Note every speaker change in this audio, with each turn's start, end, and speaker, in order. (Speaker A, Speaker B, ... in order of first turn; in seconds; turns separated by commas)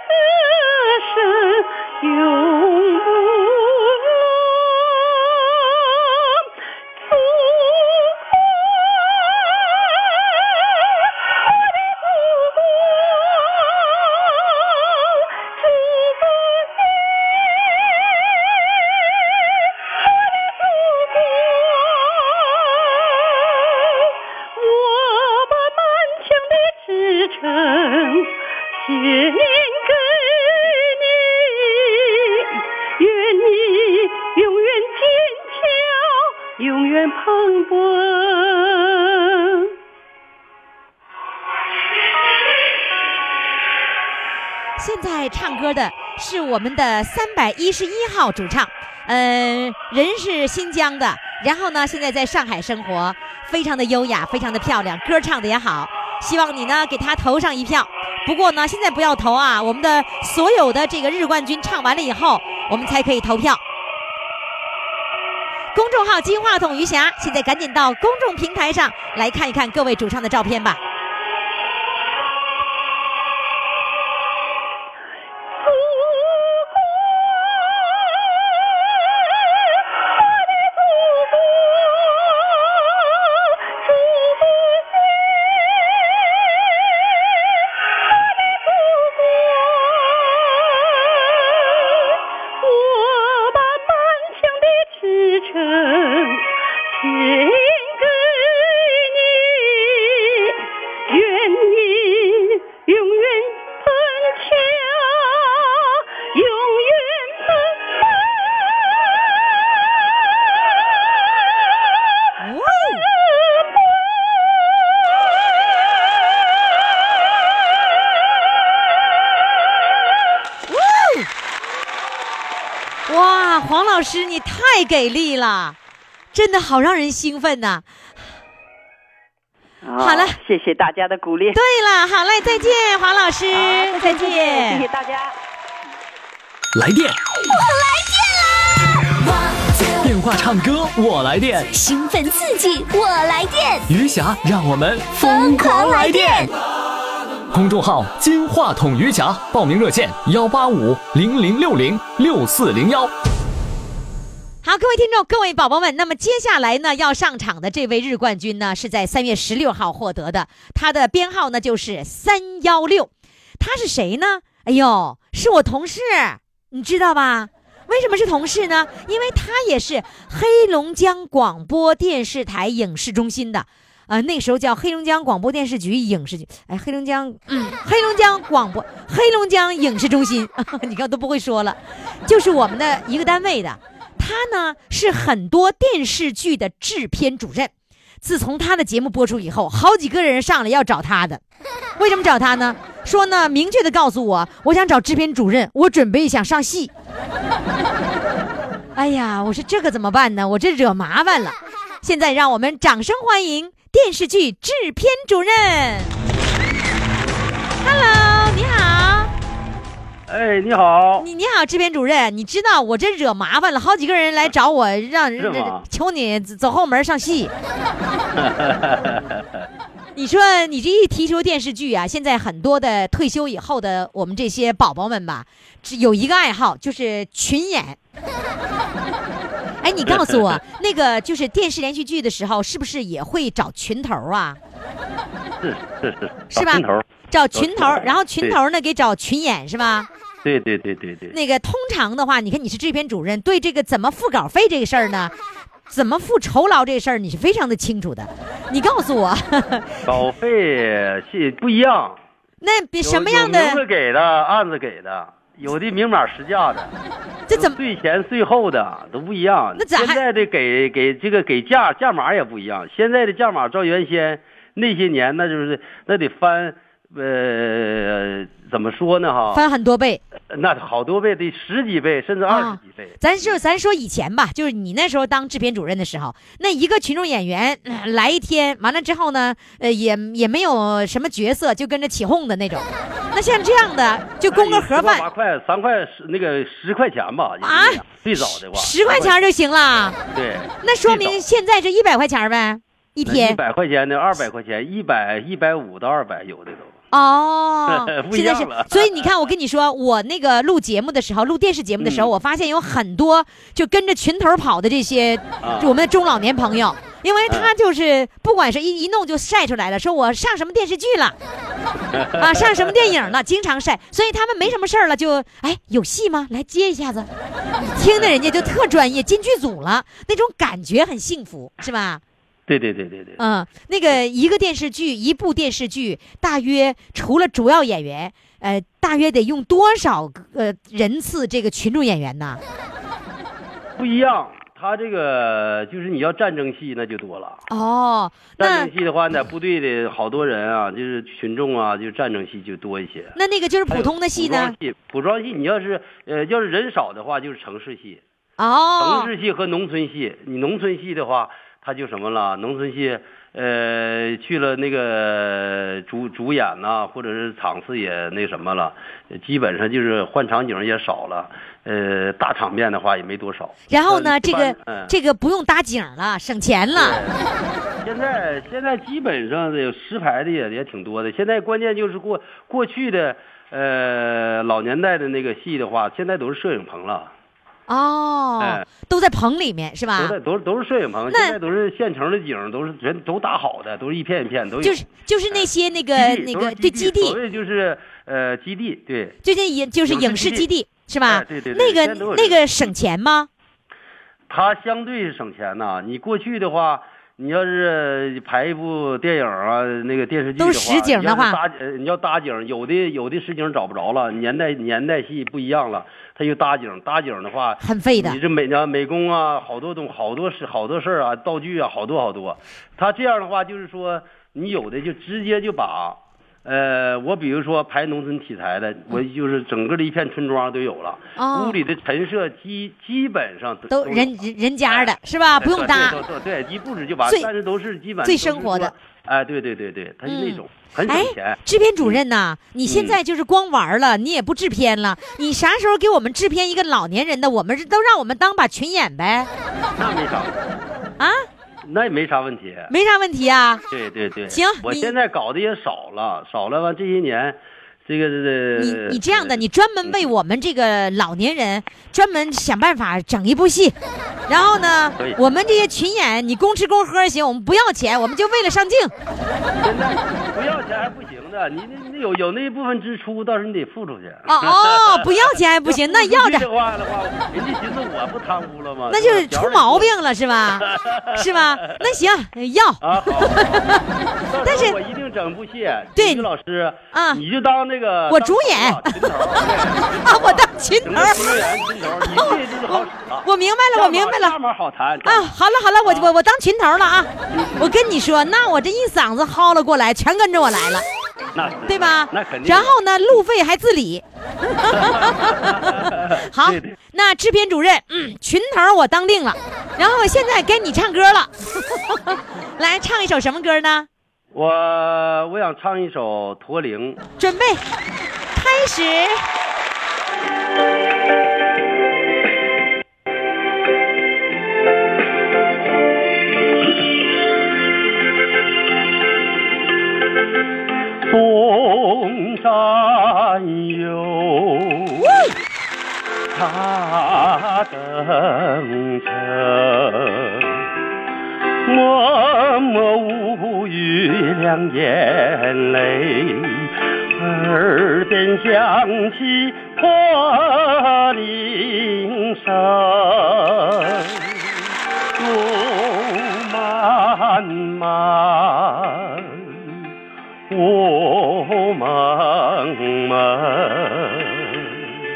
Speaker A: 1.1-3.0, Speaker A: 24.6-31.1, Speaker A: 33.0-38.9, Speaker B: 44.8-63.6, Speaker B: 65.7-70.8, Speaker A: 92.7-92.9, Speaker A: 93.4-95.5, Speaker A: 97.0-97.5, Speaker A: 101.1-102.0, Speaker A: 102.9-104.8, Speaker A: 106.3-107.4, Speaker B: 112.4-113.0, Speaker B: 120.7-121.3, Speaker B: 123.1-125.8, Speaker B: 126.3-127.8, Speaker A: 129.8-131.6, Speaker B: 130.0-130.4, Speaker B: 131.5-134.8, Speaker A: 133.5-135.3, Speaker C: 136.7-137.2, Speaker D: 137.5-138.6, Speaker C: 140.0-141.7, Speaker D: 141.7-143.8, Speaker C: 143.9-146.5, Speaker D: 145.1-146.5, Speaker C: 147.5-153.1, Speaker B: 154.6-191.4, Speaker B: 192.0-196.9, Speaker B: 198.9-206.1, Speaker B: 207.8-209.3, Speaker E: 210.3-211.2, Speaker B: 211.2-217.5, Speaker E: 215.4-215.8, Speaker E: 218.4-219.4, Speaker B: 220.2-228.0, Speaker B: 229.8-234.6, Speaker E: 230.1-230.6, Speaker E: 235.6-238.6, Speaker B: 236.5-240.1, Speaker E: 240.4-241.3, Speaker B: 241.3-245.3, Speaker B: 245.9-250.0, Speaker E: 250.1-252.2, Speaker B: 252.6-253.8, Speaker E: 253.0-256.9, Speaker B: 257.5-257.8, Speaker E: 257.5-269.6, Speaker B: 259.8-260.2, Speaker B: 269.5-270.2, Speaker E: 270.5-273.2, Speaker B: 272.5-285.2, Speaker E: 284.5-289.4, Speaker B: 287.6-290.2, Speaker E: 290.3-291.4, Speaker B: 290.8-293.6, Speaker E: 293.2-296.9, Speaker B: 297.1-311.4, Speaker E: 297.9-299.3, Speaker E: 302.0-302.3, Speaker E: 305.6-305.9, Speaker E: 312.1-312.9, Speaker B: 312.4-322.2, Speaker E: 318.0-318.7, Speaker E: 322.7-323.4, Speaker B: 323.4-332.6, Speaker E: 334.0-337.6, Speaker B: 337.7-338.9, Speaker E: 338.6-343.3, Speaker B: 343.4-344.7, Speaker E: 343.9-348.2, Speaker B: 348.6-349.3, Speaker E: 349.0-365.1, Speaker B: 363.9-367.2, Speaker E: 366.9-367.5, Speaker E: 368.0-377.3, Speaker B: 377.9-380.4, Speaker E: 380.2-389.4, Speaker B: 381.3-381.6, Speaker B: 384.8-387.4, Speaker B: 389.4-393.5, Speaker E: 390.1-390.7, Speaker E: 391.3-392.9, Speaker E: 394.5-424.3, Speaker B: 400.6-401.6, Speaker B: 407.8-408.4, Speaker B: 421.4-421.8, Speaker B: 423.9-426.2, Speaker E: 424.9-432.2, Speaker B: 428.2-428.9, Speaker B: 430.2-439.5, Speaker E: 432.8-433.2, Speaker E: 440.0-440.6, Speaker B: 441.2-441.5, Speaker E: 441.8-442.9, Speaker B: 442.9-443.8, Speaker E: 443.9-450.3, Speaker B: 444.5-445.1, Speaker B: 448.7-453.9, Speaker B: 454.5-459.1, Speaker E: 459.8-465.3, Speaker B: 464.5-466.7, Speaker E: 465.9-470.1, Speaker B: 469.1-474.0, Speaker E: 470.8-472.0, Speaker E: 473.0-473.8, Speaker E: 474.5-486.3, Speaker B: 474.6-474.9, Speaker B: 476.2-476.5, Speaker B: 477.1-477.4, Speaker B: 478.3-481.6, Speaker B: 482.2-484.6, Speaker B: 485.2-491.1, Speaker E: 487.5-487.9, Speaker E: 491.5-492.9, Speaker B: 491.9-504.1, Speaker E: 494.9-497.0, Speaker E: 504.5-507.2, Speaker B: 507.4-507.8, Speaker B: 508.5-509.4, Speaker E: 521.3-525.3, Speaker B: 525.2-525.5, Speaker E: 526.5-530.7, Speaker E: 531.9-544.5, Speaker E: 545.4-549.8, Speaker E: 550.7-554.9